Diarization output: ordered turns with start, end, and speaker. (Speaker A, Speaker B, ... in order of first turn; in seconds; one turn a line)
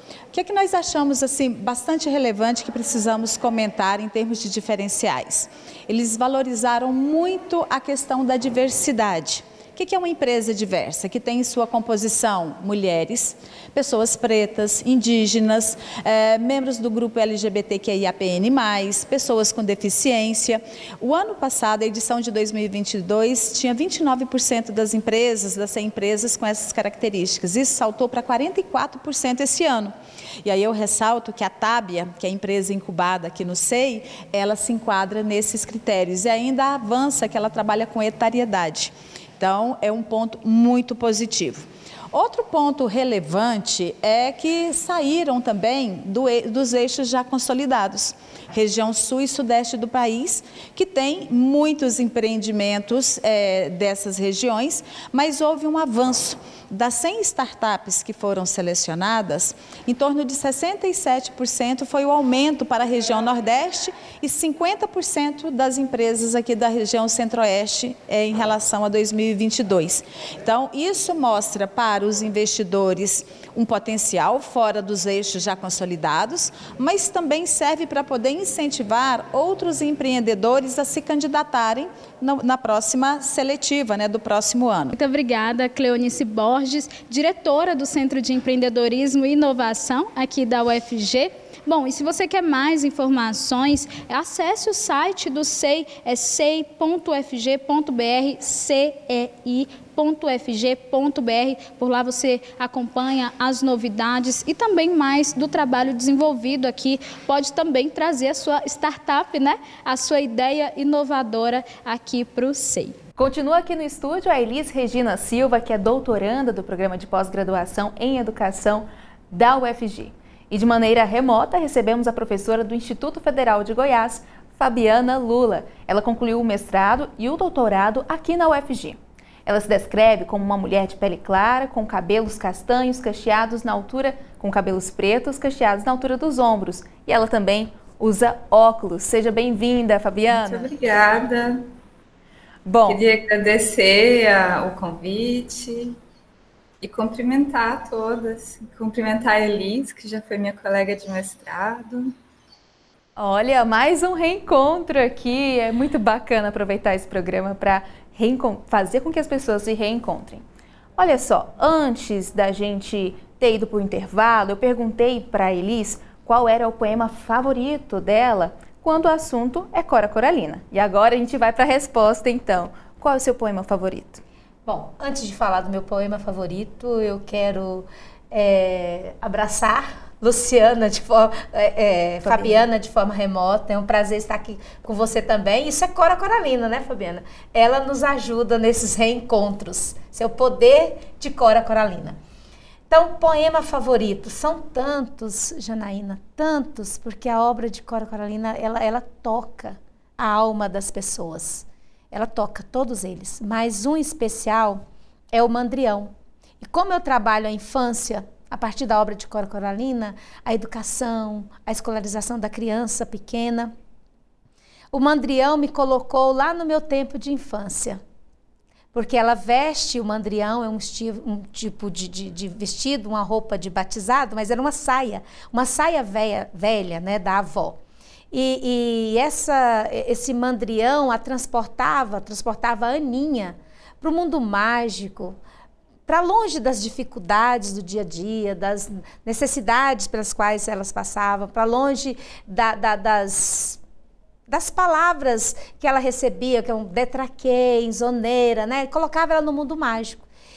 Speaker A: 0.3-84.9
Speaker B: 84.9-113.0
Speaker C: 113.2-140.7
Speaker D: 140.3-141.6
Speaker C: 142.7-143.0
Speaker D: 142.8-146.0
Speaker D: 146.8-152.1
Speaker C: 153.2-160.4
Speaker C: 161.0-174.2
Speaker E: 174.7-192.2
Speaker C: 182.3-182.6
Speaker E: 192.9-213.7
Speaker E: 214.9-218.0
Speaker E: 218.9-227.8
Speaker E: 228.3-235.4
Speaker E: 236.1-243.8
Speaker E: 244.5-250.2